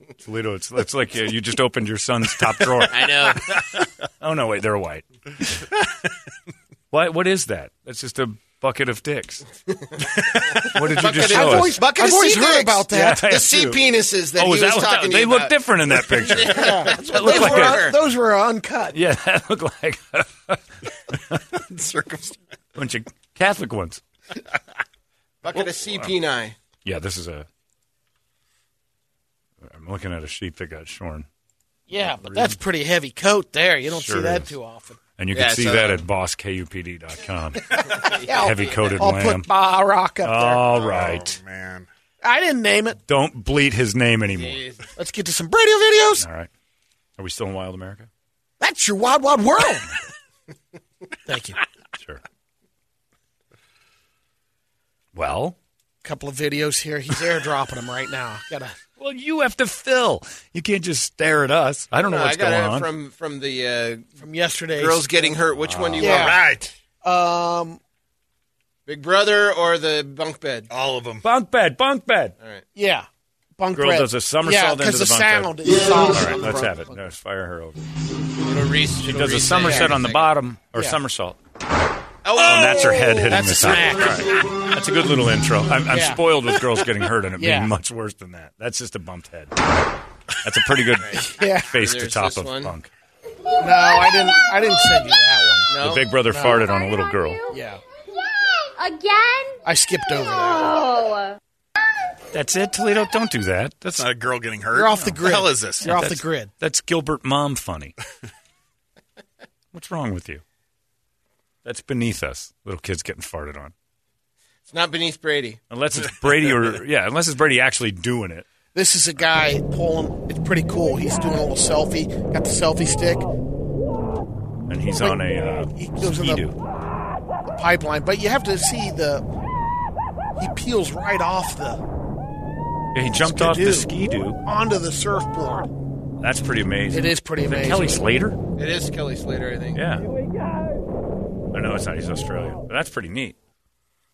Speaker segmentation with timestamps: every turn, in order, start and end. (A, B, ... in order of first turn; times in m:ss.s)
0:00.2-0:05.6 A
0:02.9-0:03.6 B
0:06.9-0:09.4 A
0:10.3-0:18.0 B
0:10.3-0:11.8 A
0:11.2-0:13.3 C
0:12.9-0:13.8 A
0:14.3-0:17.9 A
0:16.4-0:19.0 C
0:18.9-0:21.4 A
0:21.5-0:22.4 D
0:22.7-0:24.0 A
0:25.4-0:26.6 B
0:26.8-0:27.5 A
0:29.6-0:31.3 A
0:31.9-0:35.0 C
0:32.0-0:32.6 A
0:33.9-0:34.5 A
0:35.2-0:39.5 A
0:35.3-0:36.0 B
0:37.9-0:38.9 B
0:37.9-0:40.6 C
0:40.2-0:41.4 A
0:40.7-0:41.9 D
0:42.2-0:43.0 C
0:43.1-0:44.6 A
0:44.3-0:44.9 B
0:45.0-0:46.2 C
0:46.2-0:46.5 A
0:47.2-0:48.1 A
0:48.6-0:49.9 C
0:51.2-0:51.6 C
0:55.1-0:55.6 A
0:56.0-0:58.8 C
0:59.0-1:02.9 A
1:02.0-1:04.1 B
1:04.2-1:05.3 C
1:04.7-1:06.4 B
1:05.6-1:06.1 A
1:06.0-1:06.4 C
1:06.0-1:06.7 D
1:07.0-1:07.8 C
1:08.9-1:10.7 B
1:10.7-1:11.2 D
1:11.2-1:12.3 A
1:12.4-1:12.6 B
1:12.7-1:13.1 C
1:13.6-1:16.9 C
1:13.7-1:15.5 A
1:16.1-1:17.8 A
1:18.4-1:20.3 B
1:19.0-1:21.4 A
1:22.2-1:23.4 B
1:22.3-1:29.5 A
1:23.3-1:24.2 C
1:25.9-1:26.2 C
1:27.4-1:27.7 C
1:30.4-1:32.9 A
1:31.0-1:32.7 B
1:31.1-1:31.7 C
1:33.6-1:35.7 C
1:35.7-1:36.0 B
1:35.8-1:37.4 A
1:36.3-1:36.7 C
1:36.6-1:37.5 E
1:37.5-1:37.8 C
1:38.7-1:39.6 E
1:39.6-1:40.8 C
1:40.5-1:41.2 E
1:42.3-1:44.1 A
1:43.9-1:45.9 D
1:44.7-1:46.5 C
1:45.8-1:48.0 A
1:49.7-1:50.4 A
1:51.6-1:53.7 A
1:54.7-1:55.6 B
1:55.7-1:58.5 A
1:58.7-2:03.3 C
2:04.7-2:06.6 A
2:05.0-2:06.4 C
2:07.5-2:09.2 C
2:10.4-2:11.8 C
2:12.9-2:14.4 A
2:13.1-2:13.9 C
2:14.4-2:15.7 C
2:16.2-2:18.4 A
2:16.9-2:18.0 C
2:18.6-2:19.8 B
2:19.7-2:20.1 A
2:21.5-2:23.4 A